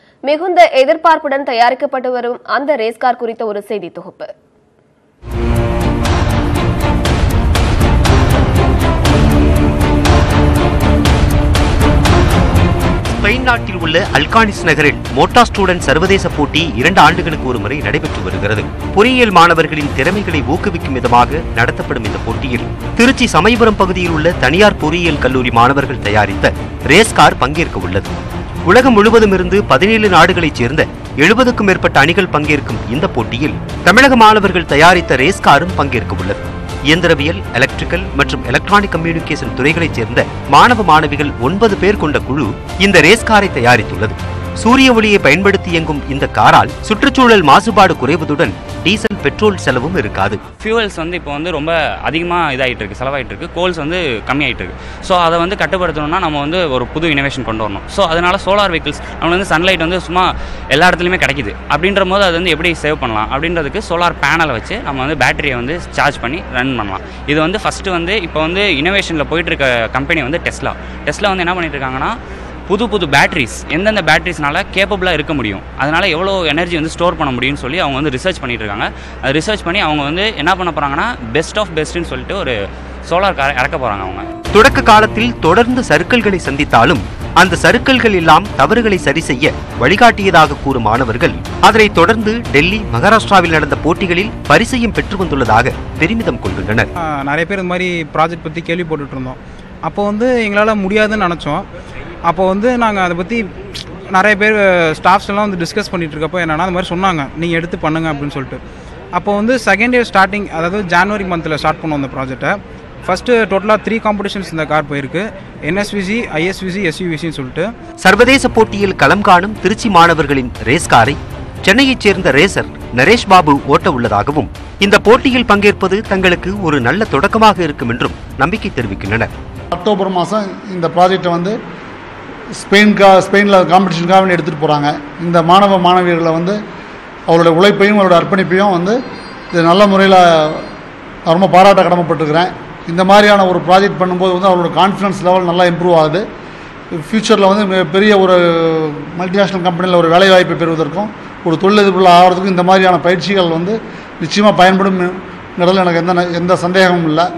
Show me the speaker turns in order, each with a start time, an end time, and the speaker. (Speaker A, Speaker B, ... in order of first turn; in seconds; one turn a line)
Speaker A: 0.3-4.3
Speaker B: 13.1-28.1
Speaker B: 28.6-50.4
Speaker C: 50.6-72.2
Speaker C: 72.7-82.5
Speaker C: 83.1-84.3
Speaker B: 84.5-96.9
Speaker D: 97.0-101.7
Speaker D: 102.3-108.6
Speaker D: 109.1-117.7
Speaker B: 118.0-129.3
Speaker E: 129.7-131.6
Speaker E: 132.6-136.6
Speaker E: 137.3-139.0
Speaker E: 139.5-140.7
Speaker E: 141.3-146.2
Speaker E: 146.9-157.3